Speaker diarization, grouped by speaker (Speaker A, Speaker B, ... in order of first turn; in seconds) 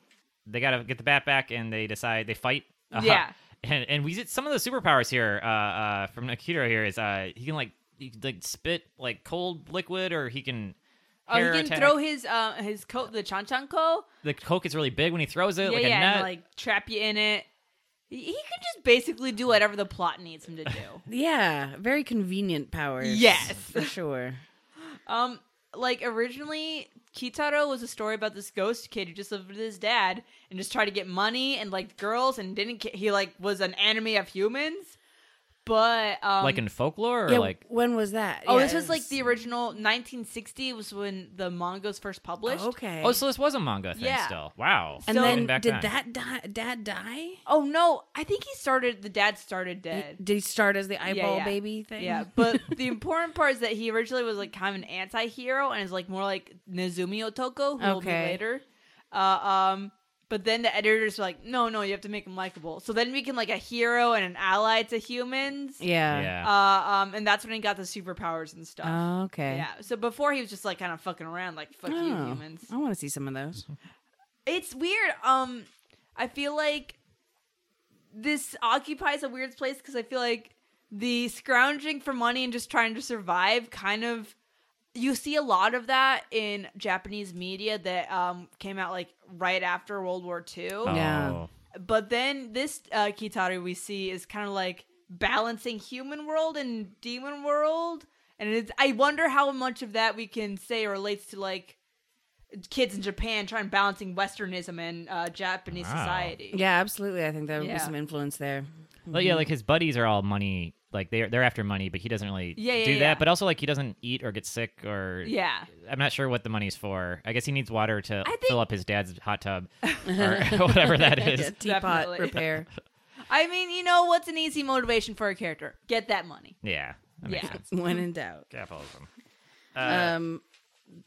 Speaker A: 0.5-10.8, 11.3-12.0, 14.2-16.3, 36.4-37.6, 43.0-45.9, 66.1-66.5, 90.8-91.5, 105.7-106.3, 109.1-121.6, 126.6-127.6, 128.5-129.1, 129.7-130.1
Speaker B: 2.9-3.3, 11.3-14.1, 15.6-17.4, 18.1-21.0, 23.0-23.9, 24.8-35.0, 35.6-36.6, 38.5-42.7, 43.9-44.4, 45.0-45.5, 47.5-50.2, 51.0-65.8, 66.4-72.7, 74.5-77.0, 78.1-84.3, 84.9-91.0, 91.7-101.8, 102.6-106.6, 107.6-107.9, 112.5-113.2, 115.2-115.7, 118.2-118.6, 121.6-122.4, 123.3-126.6, 127.2-127.6
Speaker C: 21.1-24.4, 37.3-39.1, 42.4-43.2, 45.1-47.4, 49.9-52.8, 57.8-58.4, 65.8-66.3, 68.8-69.7, 71.9-73.7, 90.8-91.4, 106.5-109.5, 120.0-122.7, 127.4-128.5, 129.8-130.4